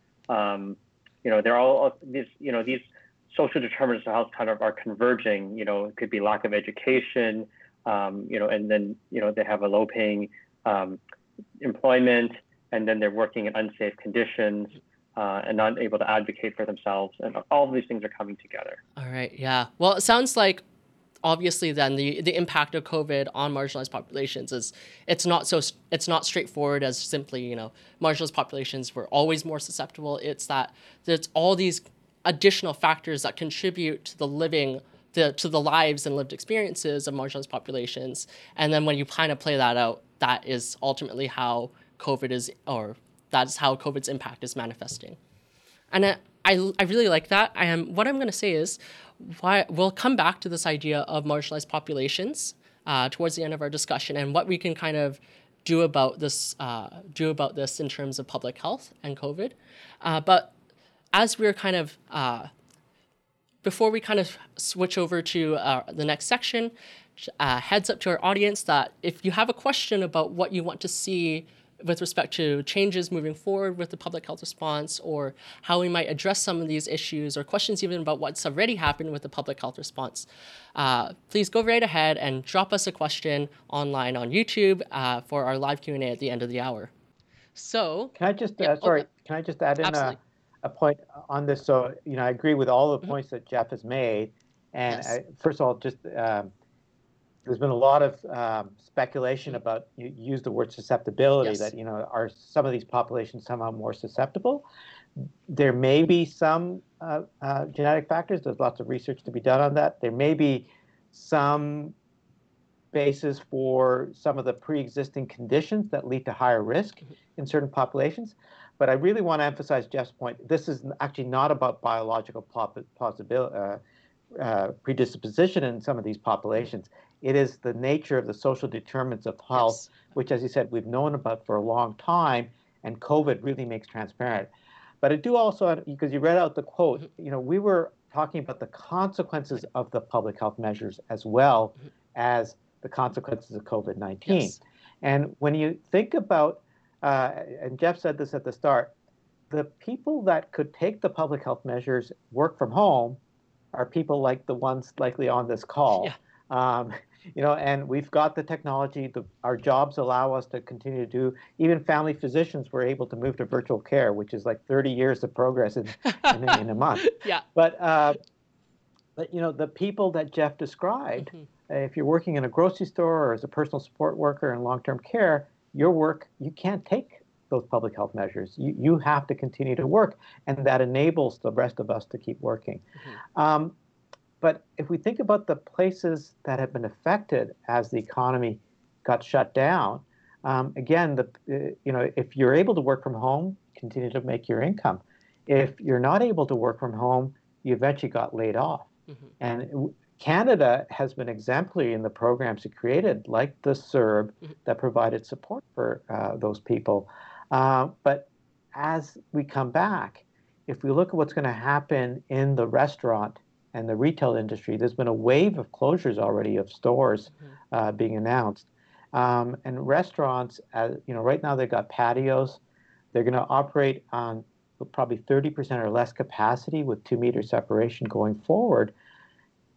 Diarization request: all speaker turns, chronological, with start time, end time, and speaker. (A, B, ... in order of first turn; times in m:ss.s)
0:00.3-0:11.0 A
0:11.6-0:18.8 A
0:19.0-0:20.6 B
0:21.2-0:45.2 B
0:45.9-1:00.5 B
1:01.1-1:02.5 B
1:03.6-1:26.9 B
1:27.6-1:29.1 B
1:28.2-1:36.5 C
1:29.8-1:30.2 B
1:34.9-1:35.2 B
1:37.4-1:44.7 C
1:41.4-1:41.7 B
1:45.5-1:52.0 C
1:52.9-2:03.8 C
2:04.3-2:14.5 C
2:09.6-2:09.9 B
2:15.0-2:28.9 C
2:29.5-2:33.2 C
2:33.7-2:48.2 C
2:47.1-2:47.4 B
2:49.2-3:03.8 C
3:04.4-3:42.6 C
3:43.1-3:48.9 C